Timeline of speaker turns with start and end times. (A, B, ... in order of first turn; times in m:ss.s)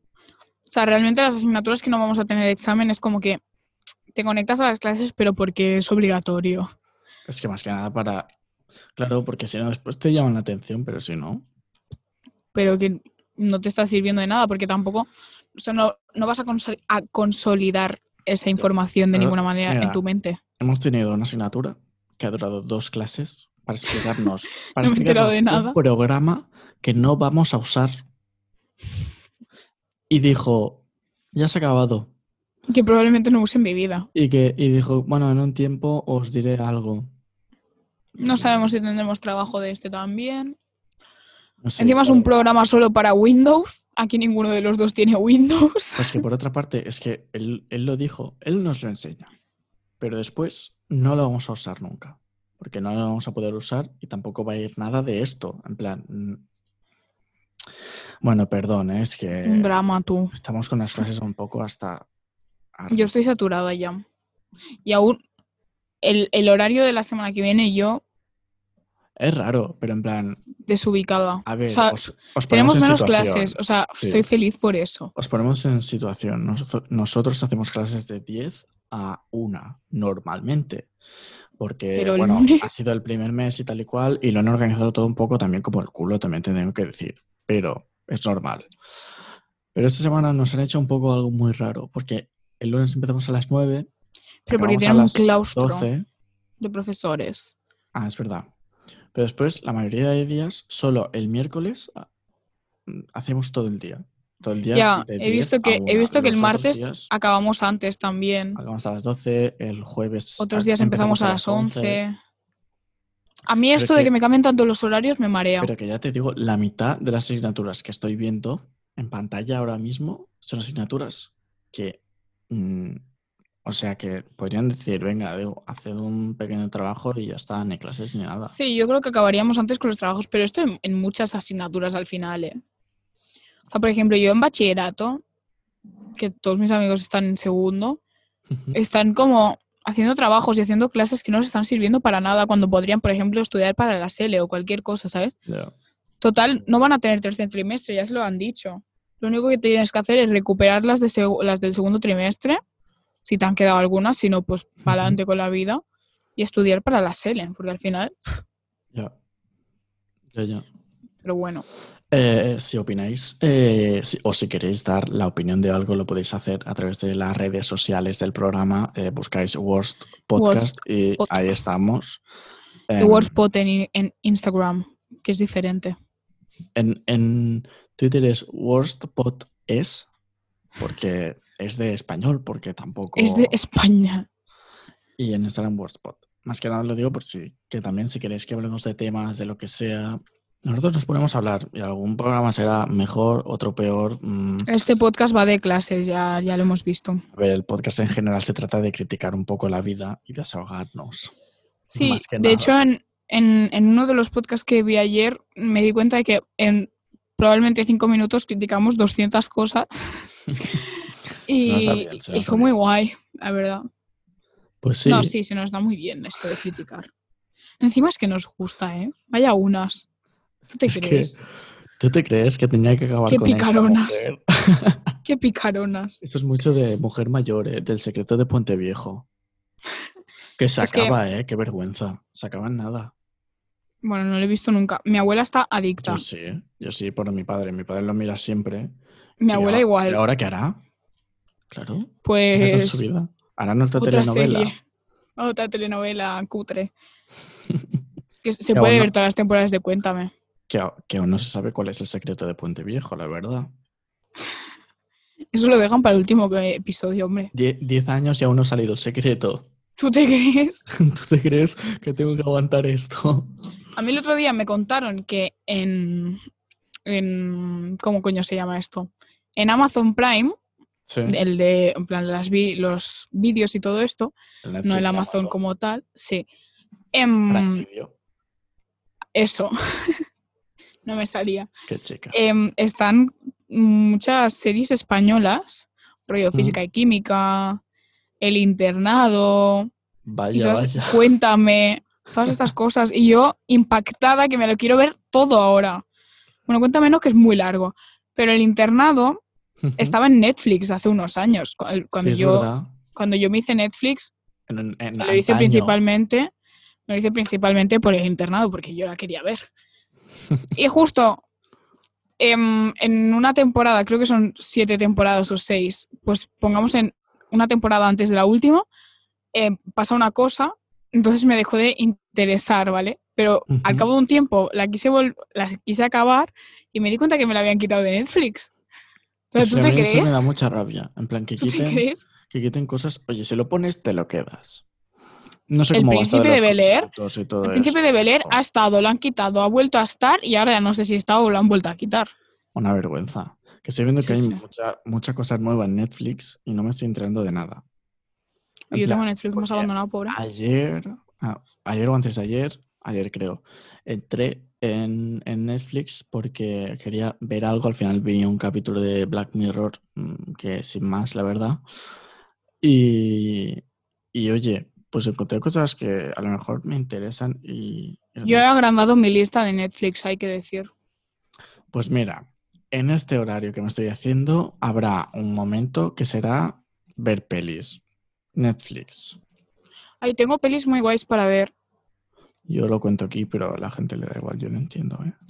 0:00.7-0:03.4 A
0:04.1-0:06.7 A
0:07.3-0:08.3 B
0:09.0-0:11.5 B
0:12.5-0:20.4 A
0:18.6-0:20.0 B
0:20.6-0:28.0 B
0:24.8-0:25.8 A
0:30.1-0:30.8 B
0:31.3-0:32.1 B
0:32.7-0:34.1 A
0:34.1-0:37.1 B
0:38.2-0:40.6 A
0:38.2-0:38.7 B
0:41.6-0:42.3 B
0:41.8-0:46.2 A
0:46.0-0:49.3 B
0:50.0-0:56.4 B
0:58.2-0:59.7 B
0:59.4-1:00.3 A
1:00.3-1:02.1 B
1:02.8-1:03.1 B
1:02.9-1:04.0 A
1:04.8-1:05.2 A
1:06.0-1:08.0 A
1:09.2-1:10.4 B
1:10.6-1:15.1 A
1:11.4-1:14.2 B
1:15.2-1:20.9 B
1:21.6-1:28.7 B
1:22.0-1:22.7 A
1:29.7-1:33.9 B
1:34.5-1:35.9 A
1:34.5-1:36.1 B
1:36.6-1:37.5 A
1:37.9-1:38.5 B
1:39.1-1:42.1 B
1:42.9-1:47.1 B
1:44.7-1:48.6 A
1:48.6-1:52.0 B
1:50.4-1:52.2 A
1:53.5-1:55.7 A
1:53.8-1:54.1 B
1:55.6-2:03.0 B
2:03.6-2:08.5 B
2:08.5-2:12.6 A
2:13.7-2:15.2 A
2:16.2-2:18.0 A
2:18.7-2:25.4 A
2:25.5-2:25.7 B
2:26.2-2:32.6 A
2:33.2-2:35.8 A
2:34.9-2:35.2 B
2:36.4-2:38.4 A
2:40.3-2:40.6 B
2:41.2-2:41.6 A
2:42.1-2:52.2 B
2:50.4-2:51.5 A
2:52.9-2:53.4 B
2:53.0-2:56.0 A
2:56.8-3:00.1 B
3:00.8-3:03.6 B
3:03.2-3:04.3 A
3:05.2-3:14.7 B
3:14.7-3:17.2 A
3:17.3-3:21.3 B
3:21.9-3:22.7 B
3:21.9-3:30.1 A
3:31.5-3:33.8 A
3:31.5-3:32.7 B
3:34.8-3:35.3 B
3:35.0-3:37.1 A
3:37.8-3:40.1 A
3:40.7-3:41.4 A
3:40.9-3:41.4 B
3:42.0-3:45.1 B
3:43.3-3:44.2 A
3:45.2-3:46.2 A
3:46.2-3:49.3 B
3:50.6-3:53.1 B
3:50.8-3:51.2 A
3:54.0-3:56.2 A
3:56.0-3:59.0 B
3:59.4-4:00.2 A
3:59.5-4:00.8 B
4:01.7-4:04.7 B
4:02.2-4:03.0 A
4:04.0-4:04.8 A
4:05.4-4:06.9 A
4:08.4-4:10.3 A
4:08.7-4:09.1 B
4:10.7-4:13.7 B
4:15.5-4:17.5 A
4:17.5-4:19.7 B
4:20.0-4:20.8 A
4:20.9-4:23.6 B
4:24.0-4:26.4 A
4:27.1-4:30.6 A
4:31.1-4:31.4 B
4:31.2-4:36.5 A
4:34.6-4:35.6 B
4:37.1-4:37.9 A
4:37.5-4:38.1 B
4:39.4-4:40.2 A
4:41.0-4:41.7 A
4:41.9-4:42.4 B
4:42.3-4:47.8 A
4:46.5-4:46.8 B
4:48.4-4:49.9 A
4:50.2-4:51.2 B
4:50.5-4:56.0 A
4:56.7-4:59.4 A
4:59.8-5:00.2 B
5:00.0-5:04.3 A
5:02.1-5:02.9 B
5:04.7-5:06.0 B
5:05.2-5:06.5 A
5:07.1-5:09.7 A
5:10.7-5:11.4 A
5:12.4-5:18.9 A
5:19.5-5:28.7 A
5:23.7-5:24.1 B
5:29.5-5:30.5 A
5:29.6-5:34.8 B
5:31.6-5:32.3 A
5:35.7-5:38.6 B
5:35.9-5:37.1 A
5:37.6-5:42.3 A
5:42.8-5:47.8 B
5:44.2-5:44.6 A
5:48.9-5:50.4 A
5:48.9-6:01.8 B
6:02.8-6:03.8 B
6:04.3-6:08.7 B
6:08.4-6:10.9 A
6:11.9-6:18.0 B
6:18.6-6:19.4 B
6:20.2-6:21.7 A
6:22.7-6:25.3 B